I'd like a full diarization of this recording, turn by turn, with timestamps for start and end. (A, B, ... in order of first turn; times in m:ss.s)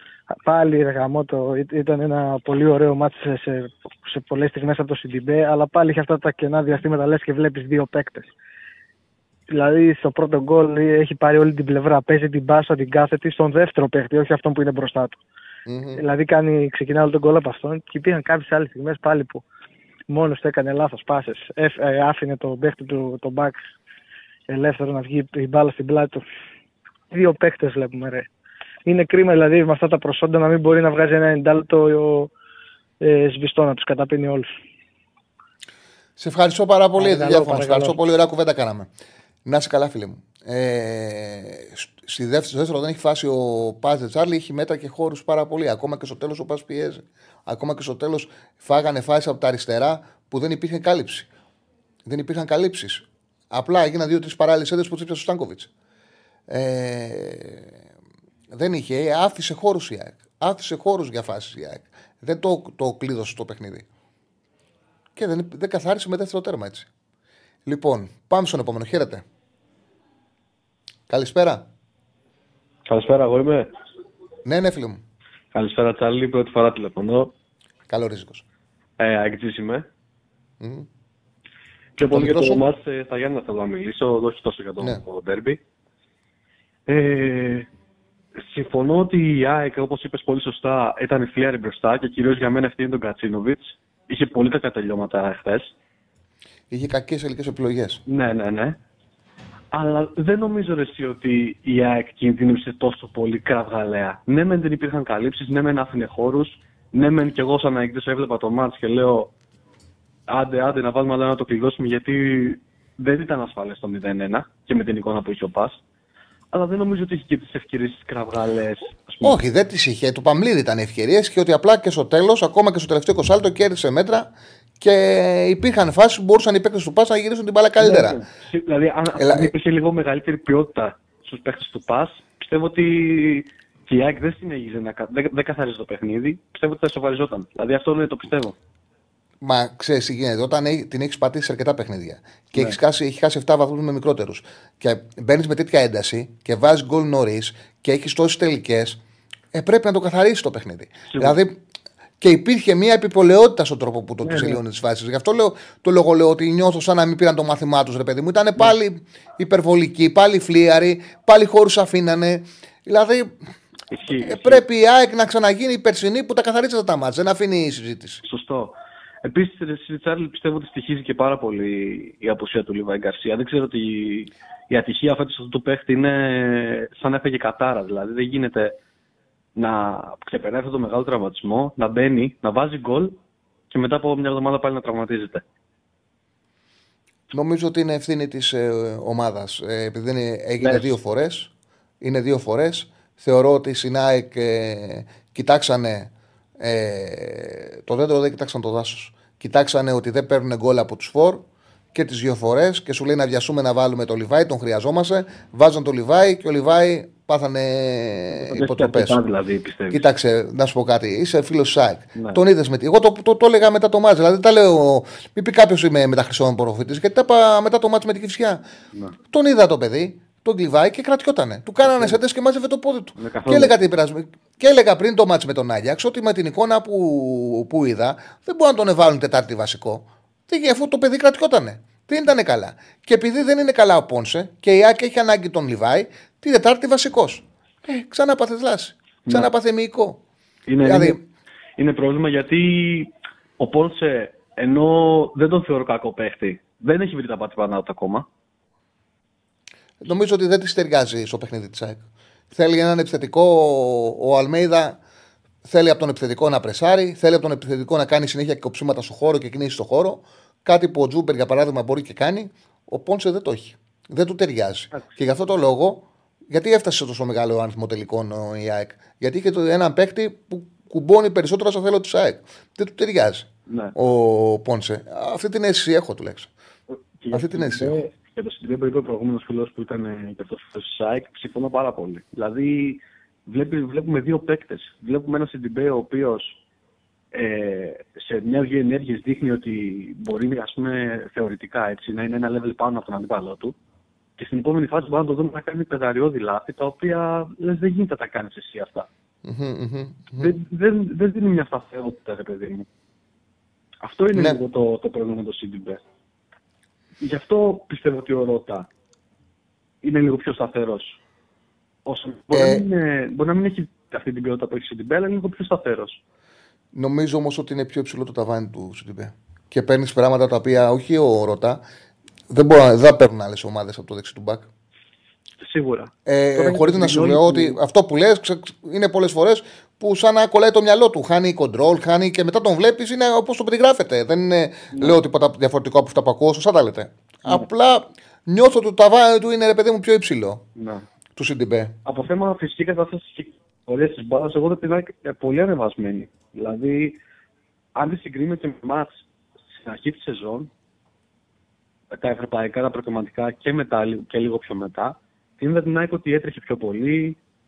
0:00.3-0:08.3 A
0:09.5-0:15.2 A
0:15.7-0:16.0 B
0:16.0-0:19.4 A
0:20.1-0:23.6 A
0:24.5-0:26.2 A
0:27.1-0:28.3 A
0:28.8-0:32.3 A
0:33.0-0:34.5 A
0:36.2-0:38.9 B
0:37.1-0:37.9 A
0:39.5-0:51.3 B
0:52.1-0:55.7 B
0:56.5-0:57.7 B
0:58.5-1:03.9 B
1:05.2-1:06.9 B
1:07.7-1:09.2 B
1:11.1-1:11.6 B
1:12.8-1:13.7 C
1:14.5-1:15.0 B
1:15.5-1:17.3 C
1:17.9-1:18.4 B
1:19.0-1:19.9 C
1:20.6-1:20.9 B
1:22.0-1:25.6 C
1:22.1-1:22.6 B
1:26.9-1:27.7 C
1:28.4-1:35.7 C
1:36.7-1:38.0 B
1:38.1-1:38.8 C
1:39.7-1:49.3 C
1:50.3-1:55.8 C
1:56.5-1:59.4 C
1:59.2-2:04.3 B
2:04.8-2:08.2 B
2:07.8-2:18.6 C
2:09.2-2:09.5 B
2:19.4-2:29.0 B
2:29.5-2:31.6 B
2:31.1-2:31.4 C
2:32.2-2:43.3 B
2:34.2-2:34.6 C
2:43.9-2:44.6 C
2:44.1-2:48.2 B
2:48.2-2:58.8 C
2:59.6-3:03.2 C
3:03.7-3:05.4 C
3:07.3-3:11.5 B
3:10.6-3:10.9 C
3:12.0-3:16.1 B
3:16.6-3:21.4 B
3:21.9-3:29.2 B
3:28.3-3:30.1 C
3:29.9-3:38.6 B
3:32.2-3:32.4 C
3:39.3-4:00.2 B
3:41.8-3:42.2 C
3:43.2-3:43.8 C
3:59.3-3:59.5 C
4:00.7-4:01.2 C
4:00.8-4:01.2 B
4:01.8-4:08.3 C
4:10.0-4:15.0 B
4:15.7-4:36.5 B
4:24.9-4:25.2 C
4:33.7-4:34.0 C
4:36.9-4:46.6 C
4:37.3-4:38.0 B
4:47.3-4:53.8 C
4:54.4-4:59.1 C
4:59.4-5:00.5 B
5:00.4-5:02.9 C
5:04.0-5:06.0 C
5:04.3-5:04.6 B
5:07.2-5:08.9 C
5:10.0-5:11.2 C
5:12.0-5:16.2 C
5:12.5-5:12.8 B
5:16.9-5:21.8 B
5:22.5-5:24.7 B
5:25.6-5:27.8 C
5:26.3-5:40.6 B
5:34.9-5:35.2 C
5:40.8-5:41.0 C
5:41.4-5:42.0 B
5:42.0-5:47.2 C
5:48.0-5:50.7 C
5:52.1-5:57.4 C